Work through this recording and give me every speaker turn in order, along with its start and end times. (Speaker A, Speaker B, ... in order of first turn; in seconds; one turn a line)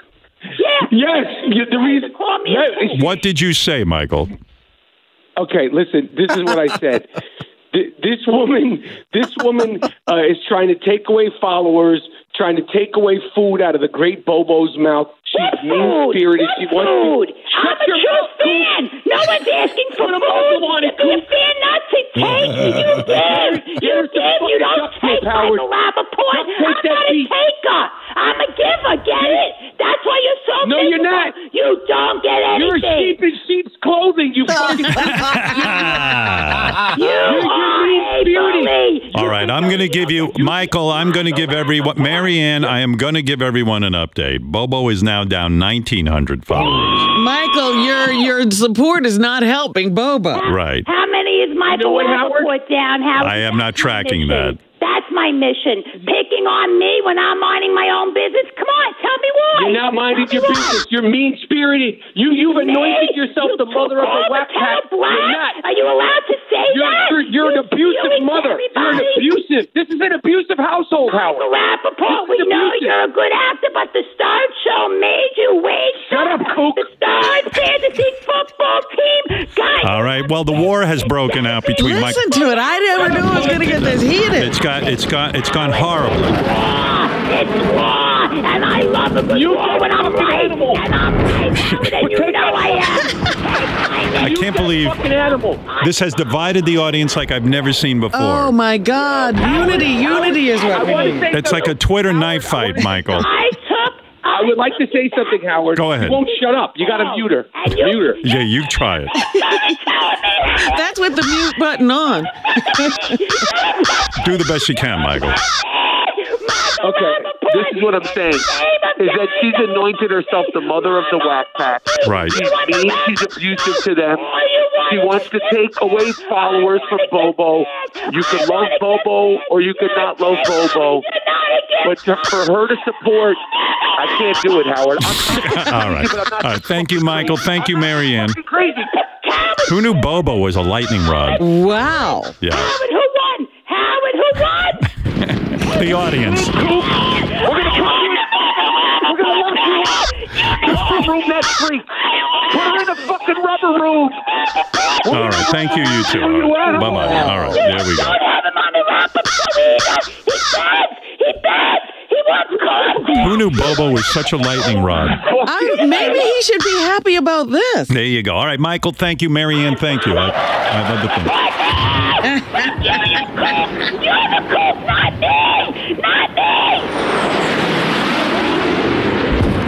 Speaker A: 0.6-0.9
Speaker B: 0.9-3.1
Speaker A: 1.5-3.1
Speaker C: 2.9-4.3
Speaker B: 5.4-7.2
Speaker B: 7.7-18.7
Speaker A: 15.3-33.2
Speaker B: 20.0-21.3
Speaker B: 23.1-25.7
Speaker B: 26.3-27.3
Speaker B: 30.6-31.4
Speaker B: 32.5-35.9
Speaker D: 34.7-35.8
Speaker C: 35.0-36.8
Speaker A: 36.8-40.6
Speaker B: 37.2-38.7
Speaker C: 39.1-47.1
Speaker A: 41.5-41.8
Speaker D: 47.1-50.5
Speaker A: 50.3-60.8
Speaker C: 50.4-50.9
Speaker B: 51.7-52.5
Speaker C: 53.2-54.6
Speaker B: 59.5-65.6
Speaker A: 62.5-69.3
Speaker B: 66.7-71.5
Speaker A: 71.1-80.3
Speaker B: 72.1-73.0
Speaker B: 76.0-76.9
Speaker C: 79.8-82.2
Speaker A: 81.3-81.7
Speaker D: 81.8-84.5
Speaker A: 82.3-83.9
Speaker B: 83.0-83.5
Speaker C: 83.6-86.4
Speaker A: 84.8-96.3
Speaker B: 89.3-90.9
Speaker C: 91.6-91.9
Speaker B: 92.0-93.0
Speaker C: 94.2-95.0
Speaker B: 94.2-95.6
Speaker C: 95.8-98.5
Speaker D: 98.1-101.3
Speaker A: 99.4-101.1
Speaker B: 100.1-103.3
Speaker C: 101.3-103.3
Speaker A: 103.1-105.4
Speaker B: 104.3-108.2
Speaker C: 105.8-106.2
Speaker A: 106.8-108.5
Speaker C: 108.2-109.1
Speaker A: 109.1-110.9
Speaker D: 110.6-113.2
Speaker A: 112.6-134.6
Speaker C: 114.2-115.4
Speaker B: 116.8-124.2
Speaker C: 122.0-122.4
Speaker B: 124.9-131.1
Speaker B: 131.8-133.4
Speaker B: 134.0-138.9
Speaker C: 135.1-138.4
Speaker A: 138.6-140.0
Speaker C: 139.7-141.4
Speaker D: 141.4-142.3
Speaker C: 142.4-142.8
Speaker A: 142.5-144.9
Speaker C: 145.1-146.9
Speaker B: 145.9-146.9
Speaker A: 146.6-151.2
Speaker B: 147.4-151.9
Speaker B: 152.4-154.2
Speaker A: 152.5-152.8
Speaker A: 154.7-155.1
Speaker B: 155.0-157.3
Speaker C: 155.1-158.2
Speaker D: 156.7-157.6
Speaker A: 157.5-163.9
Speaker B: 162.9-163.3
Speaker C: 163.2-165.2
Speaker B: 165.2-166.2
Speaker D: 165.4-167.9
Speaker C: 167.9-171.3
Speaker A: 169.8-170.2
Speaker A: 171.2-176.9
Speaker D: 172.2-172.7